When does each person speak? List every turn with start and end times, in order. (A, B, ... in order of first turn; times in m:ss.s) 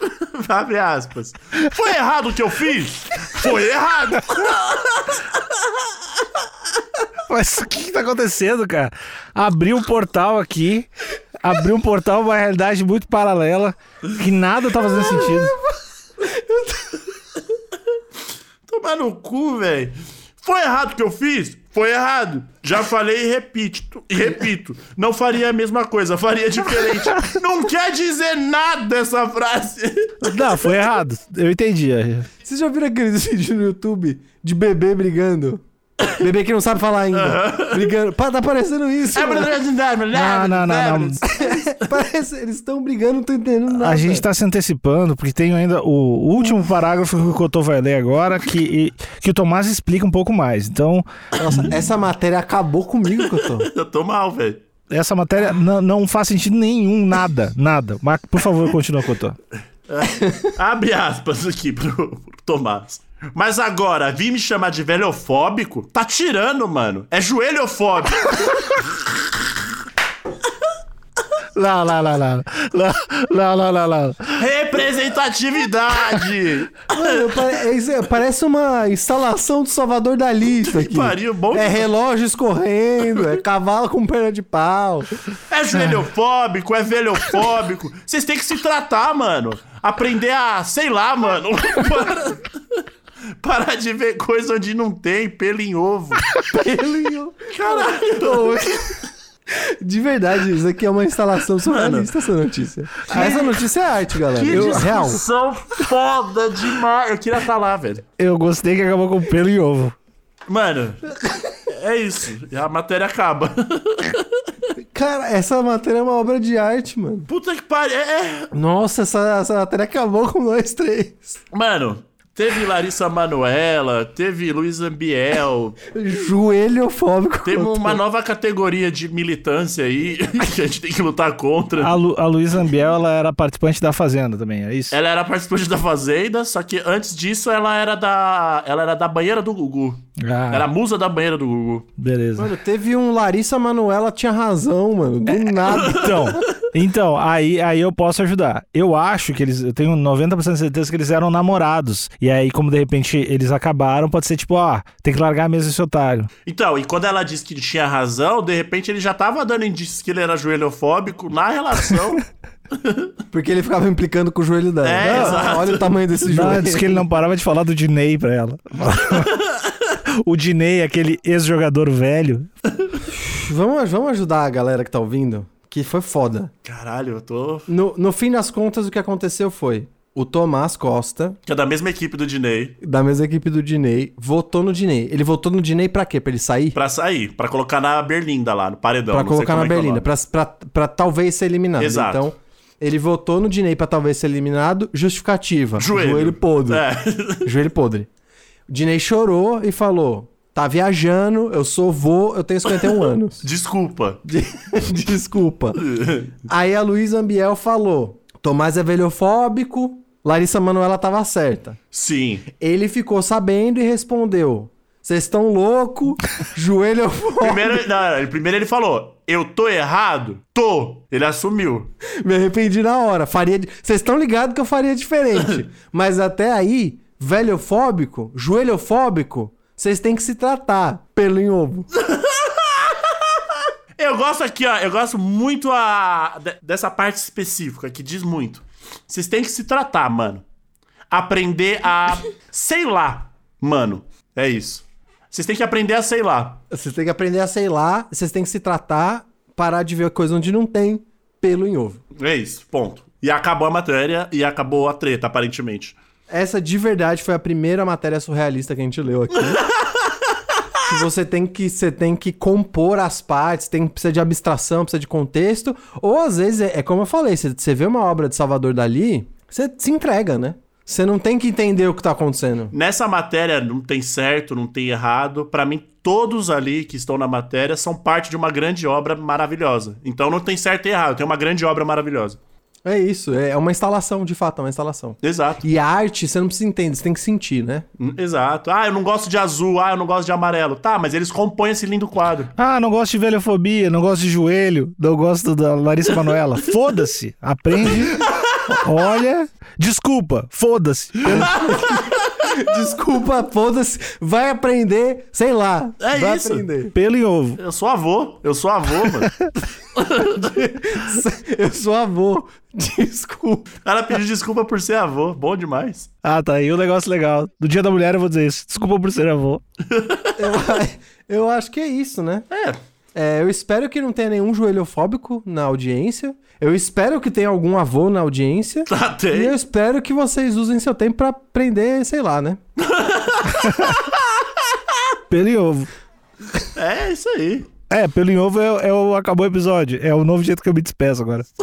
0:00.2-0:05.2 A
0:07.3-0:10.9 B
0:11.4-0:15.6 B
0:15.0-0:15.5 C
0:16.2-0:17.0 C
0:18.7-0:30.3 A
0:30.2-0:32.3 B
0:32.4-0:35.6 C
0:36.2-0:39.6 C
0:37.1-0:37.9 A
0:39.1-0:41.9 A
0:40.1-0:41.2 B
0:41.3-0:44.2 C
0:43.7-0:51.0 B
0:51.4-0:53.7 C
0:53.4-0:54.6 A
0:54.9-0:59.4 B
0:59.9-1:08.8 A
1:11.6-1:14.4 B
1:14.3-1:17.5 A
1:16.9-1:25.2 C
1:20.5-1:21.9 A
1:25.5-1:32.8 A
1:33.4-1:36.2 A
1:36.5-1:38.9 C
1:37.5-1:38.6 A
1:39.8-1:45.2 C
1:41.6-1:42.1 A
1:43.1-1:43.4 A
1:43.1-1:43.5 B
1:44.3-1:48.0 A
1:44.5-1:44.9 B
1:48.2-1:50.0 B
1:50.5-1:51.2 A
1:51.7-1:54.2 A
1:54.9-1:57.3 C
1:57.3-1:58.5 A
1:58.5-2:01.4 C
2:01.5-2:05.8 A
2:05.9-2:08.0 C
2:07.4-2:12.0 A
2:11.8-2:15.0 B
2:14.9-2:21.9 A
2:20.2-2:20.7 B
2:22.0-2:22.5 B
2:22.4-2:26.2 C
2:25.3-2:36.3 B
2:25.8-2:26.4 A
2:36.4-2:42.2 A
2:42.8-2:43.1 A
2:43.3-2:47.1 C
2:44.8-2:45.9 A
2:45.0-2:45.4 B
2:46.3-2:49.3 B
2:50.2-2:52.5 B
2:53.1-2:56.5 C
2:56.6-2:57.7 A
2:57.7-3:01.4 C
3:01.4-3:02.8 A
3:02.8-3:06.8 C
3:06.7-3:10.1 A
3:09.1-3:16.8 C
3:11.8-3:12.3 A
3:15.8-3:17.5 A
3:17.4-3:18.1 C
3:18.7-3:23.4 C
3:23.4-3:24.2 A
3:24.2-3:25.8 C
3:25.7-3:26.4 A
3:26.5-3:31.8 C
3:31.9-3:32.5 A
3:32.6-3:37.8 C
3:37.4-3:41.9 A
3:42.2-3:51.9 C
3:52.0-3:53.4 A
3:54.0-4:00.4 A
4:01.1-4:06.6 A
4:06.7-4:12.0 C
4:12.2-4:16.0 A
4:16.3-4:19.6 C
4:20.8-4:32.7 C
4:32.7-4:42.4 A
4:42.8-4:47.8 C
4:45.2-4:45.6 A
4:48.0-4:52.5 A
4:52.6-5:01.5 B
4:56.2-4:56.7 A
5:01.3-5:02.4 A
5:01.4-5:07.0 C
5:06.0-5:06.7 A
5:06.9-5:07.6 B
5:07.6-5:09.3 A
5:09.2-5:09.5 B
5:10.2-5:13.7 C
5:13.8-5:16.1 A
5:16.2-5:19.6 B
5:19.9-5:20.3 A
5:20.4-5:22.4 C
5:22.5-5:22.8 A
5:23.1-5:32.6 C
5:28.9-5:29.6 A
5:32.8-5:34.0 A
5:35.3-5:35.9 B
5:36.7-5:37.7 A
5:37.9-5:41.5 B